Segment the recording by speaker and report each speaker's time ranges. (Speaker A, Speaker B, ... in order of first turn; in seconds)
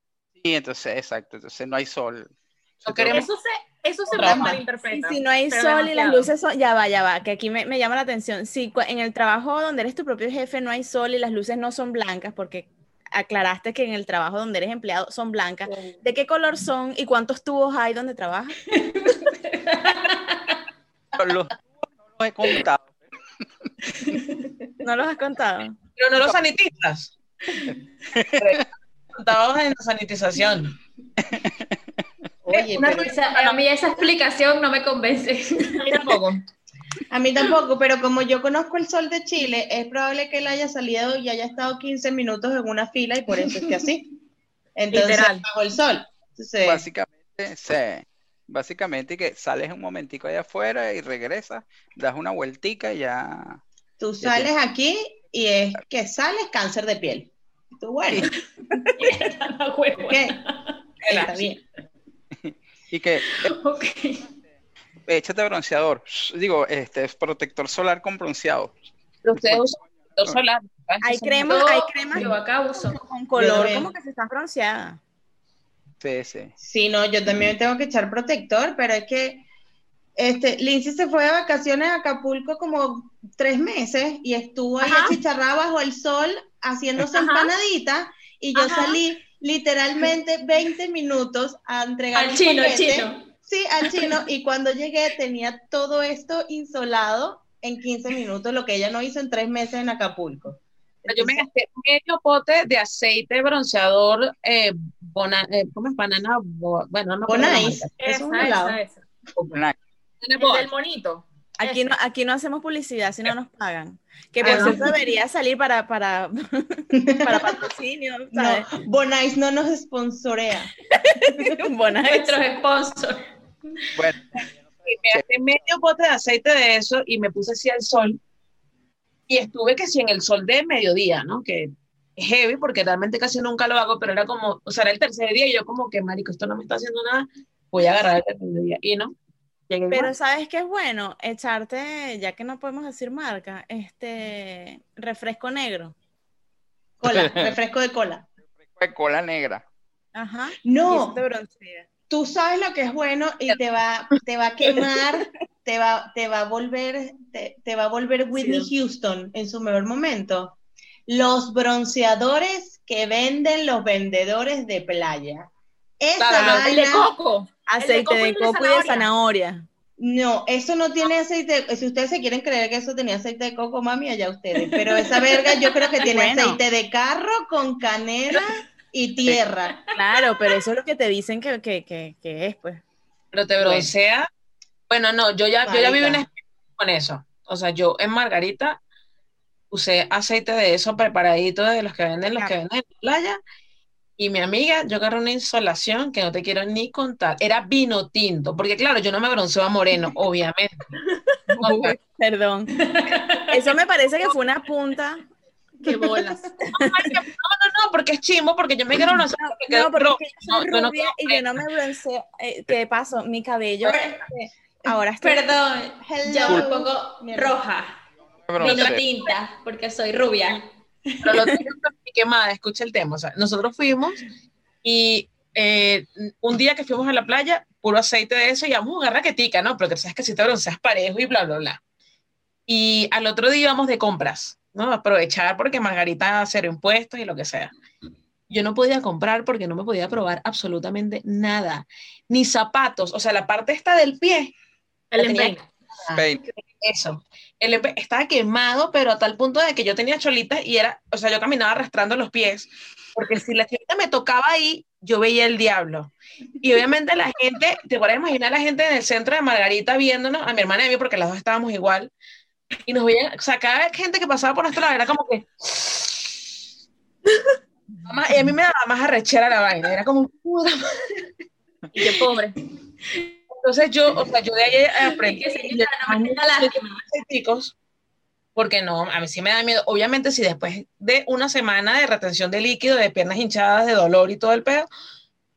Speaker A: 0.4-2.3, 2.8-3.3, 21.2-22.9, 28.1-28.6, 31.2-31.6, 46.6-53.6, 54.2-54.5, 62.4-63.5, 65.1-68.8, 76.0-76.5, 124.0-124.3, 147.1-147.6, 148.8-149.6, 218.5-219.0, 246.1-246.4
Speaker B: 2.9-3.3, 4.1-4.6, 26.0-27.1, 28.4-30.8, 32.6-33.6, 61.0-61.4, 69.2-72.3, 101.1-107.9, 110.2-110.7, 124.9-128.2, 129.3-139.1, 139.7-140.1, 166.2-166.6, 183.3-184.3, 184.9-188.8, 189.7-193.4, 194.2-200.9, 201.6-202.0, 206.7-211.6, 218.6-219.0, 221.2-224.2, 224.8-231.8, 232.7-237.7, 238.5-244.5, 245.2-246.2, 246.8-262.1, 262.9-266.4, 268.1-271.2, 273.6-277.7, 278.6-284.9
Speaker C: 3.1-6.3, 35.8-36.4, 44.9-45.5, 84.8-85.2, 87.2-87.5, 88.5-88.9, 108.0-109.0, 110.4-111.8, 166.3-169.1, 205.8-206.5, 245.1-245.7, 271.9-272.6
Speaker D: 4.2-4.6, 32.5-33.1, 37.1-44.1, 44.8-46.9, 54.0-58.3, 60.1-60.4, 61.0-61.6, 73.4-73.9, 76.6-79.5, 80.2-101.5, 107.3-108.8, 114.5-114.7, 117.0-117.6, 118.3-120.7, 147.0-148.3, 150.6-151.2, 152.1-160.6, 161.1-165.5, 166.0-167.1, 170.0-179.8, 185.7-186.3, 216.0-217.6
Speaker E: 4.9-18.6, 24.8-25.8, 71.0-75.0, 111.6-118.7, 121.0-122.4, 139.9-145.9, 150.2-151.9, 167.7-169.7, 176.0-176.6, 179.9-182.8, 201.5-202.7, 203.5-205.2, 206.7-207.2, 209.2-214.2, 214.8-215.5
Speaker F: 18.7-20.6, 24.0-24.5, 32.6-36.2, 59.0-60.8, 63.3-64.2, 71.5-73.0, 92.2-93.3, 122.0-123.2, 175.2-175.8, 179.9-180.3, 202.7-203.7, 215.2-218.0, 218.6-221.6, 275.0-277.0